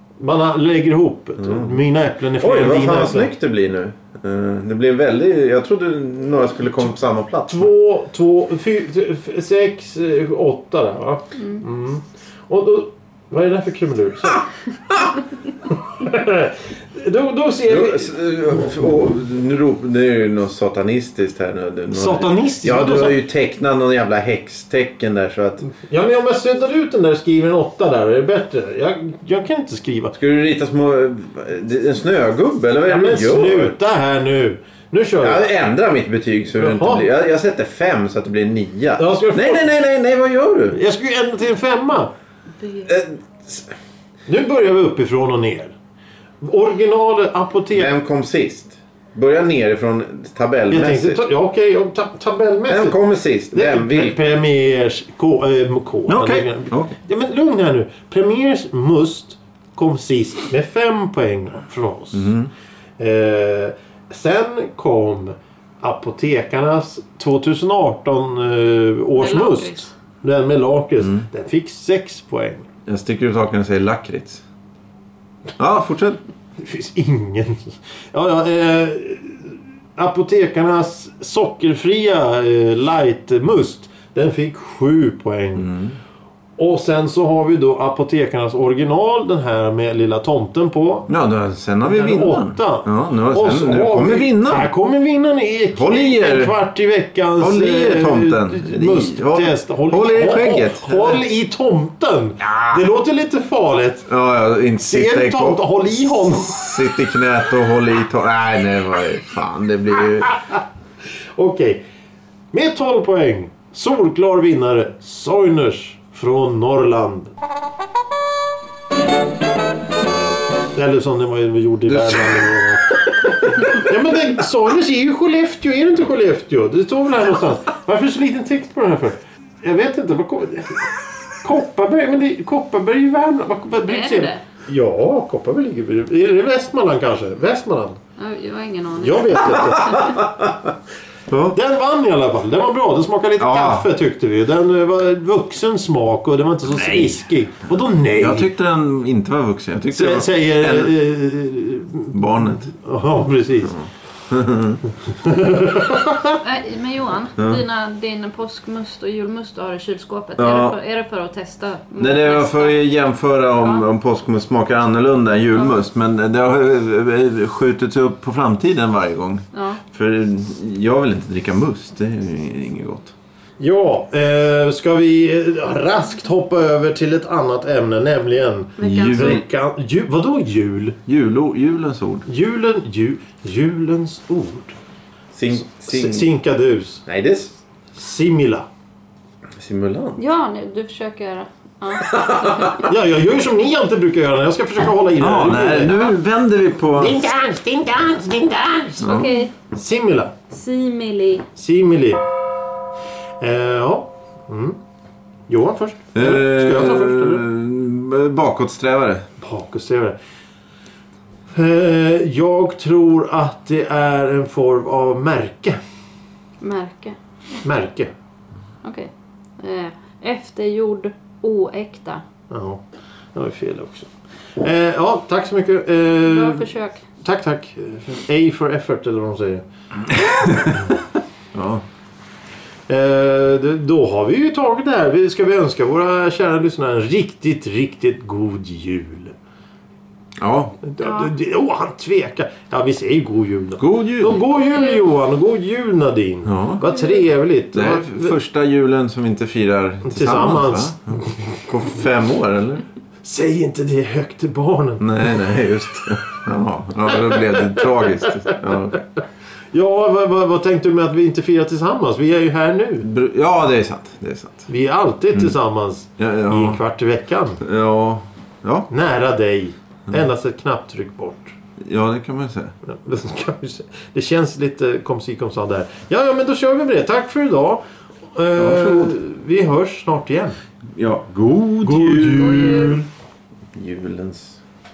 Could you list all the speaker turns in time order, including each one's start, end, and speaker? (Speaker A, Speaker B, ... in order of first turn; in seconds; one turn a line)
Speaker A: 0.2-3.3
Speaker B: 1.4-1.8
Speaker B: 2.4-7.7
Speaker A: 7.5-14.5
Speaker A: 15.9-18.2
Speaker B: 17.7-25.7
Speaker A: 21.9-23.2
Speaker A: 25.7-30.1
Speaker B: 30.1-33.8
Speaker A: 32.9-35.5
Speaker B: 35.2-40.8
Speaker A: 36.6-37.1
Speaker A: 39.0-39.7
Speaker A: 40.7-42.1
Speaker B: 42.9-43.7
Speaker A: 44.3-45.8
Speaker A: 46.4-47.9
Speaker B: 47.7-51.2
Speaker A: 50.7-53.0
Speaker B: 52.7-54.2
Speaker A: 53.5-62.3
Speaker B: 56.1-56.9
Speaker B: 62.1-62.5
Speaker A: 63.0-72.7
Speaker C: 69.2-69.9
Speaker B: 72.9-74.4
Speaker B: 75.6-76.2
Speaker A: 76.6-85.7
Speaker B: 85.6-86.0
Speaker A: 86.6-91.1
Speaker B: 91.1-94.7
Speaker A: 91.8-104.1
Speaker B: 95.8-96.5
Speaker B: 97.4-101.2
Speaker B: 102.5-102.8
Speaker B: 104.1-110.4
Speaker A: 104.8-106.9
Speaker A: 111.4-111.8
Speaker A: 112.5-117.3
Speaker A: 120.8-138.0
Speaker B: 121.9-122.4
Speaker C: 133.9-134.4
Speaker C: 138.2-140.1
Speaker A: 139.0-140.2
Speaker B: 139.8-140.7
Speaker B: 141.3-141.6
Speaker A: 141.5-148.5
Speaker B: 143.4-143.9
Speaker B: 146.7-147.1
Speaker B: 148.2-150.9
Speaker A: 149.9-153.8
Speaker B: 152.1-152.7
Speaker B: 153.7-154.8
Speaker A: 155.1-156.4
Speaker C: 156.4-162.8
Speaker B: 160.4-160.8
Speaker B: 162.0-173.1
Speaker C: 169.5-169.8
Speaker A: 173.6-181.0
Speaker C: 178.8-179.4
Speaker B: 178.8-179.4
Speaker B: 181.1-182.3
Speaker A: 182.3-184.8
Speaker B: 185.3-186.3
Speaker A: 185.5-187.0
Speaker B: 187.1-187.5
Speaker A: 188.0-188.7
Speaker B: 189.6-190.2
Speaker C: 190.2-192.8
Speaker B: 192.0-192.9
Speaker A: 192.8-196.0
Speaker B: 195.2-197.3
Speaker A: 197.0-200.3
Speaker C: 199.0-199.5
Speaker B: 199.0-199.3
Speaker C: 200.5-201.5
Speaker A: 201.6-202.2
Speaker A: 203.4-204.8
Speaker A: 205.5-207.4
Speaker B: 206.2-209.3
Speaker A: 209.4-210.2
Speaker A: 211.5-215.8
Speaker C: 216.6-217.2
Speaker A: 217.6-218.1
Speaker C: 218.8-222.2
Speaker A: 222.5-229.6
Speaker C: 226.2-227.0
Speaker B: 230.1-231.0
Speaker B: 231.5-231.8
Speaker A: 232.9-239.3
Speaker B: 240.4-240.8
Speaker A: 240.8-248.4
Speaker C: 241.0-241.3
Speaker B: 243.8-244.4
Speaker B: 246.4-246.8
Speaker B: 247.7-252.9
Speaker A: 250.0-251.7
Speaker A: 253.2-255.3
Speaker B: 255.0-259.0
Speaker A: 257.3-257.7
Speaker A: 259.7-263.1
Speaker B: 263.0-264.7
Speaker A: 264.7-267.6
Speaker B: 266.2-266.8
Speaker B: 267.6-268.9
Speaker A: 268.9-271.6
Speaker B: 271.8-272.7
Speaker A: 272.9-280.6
Speaker B: 278.6-279.1
Speaker B: 280.9-283.0
Speaker A: 281.8-283.1
Speaker C: 282.6-282.9
Speaker B: 283.7-284.6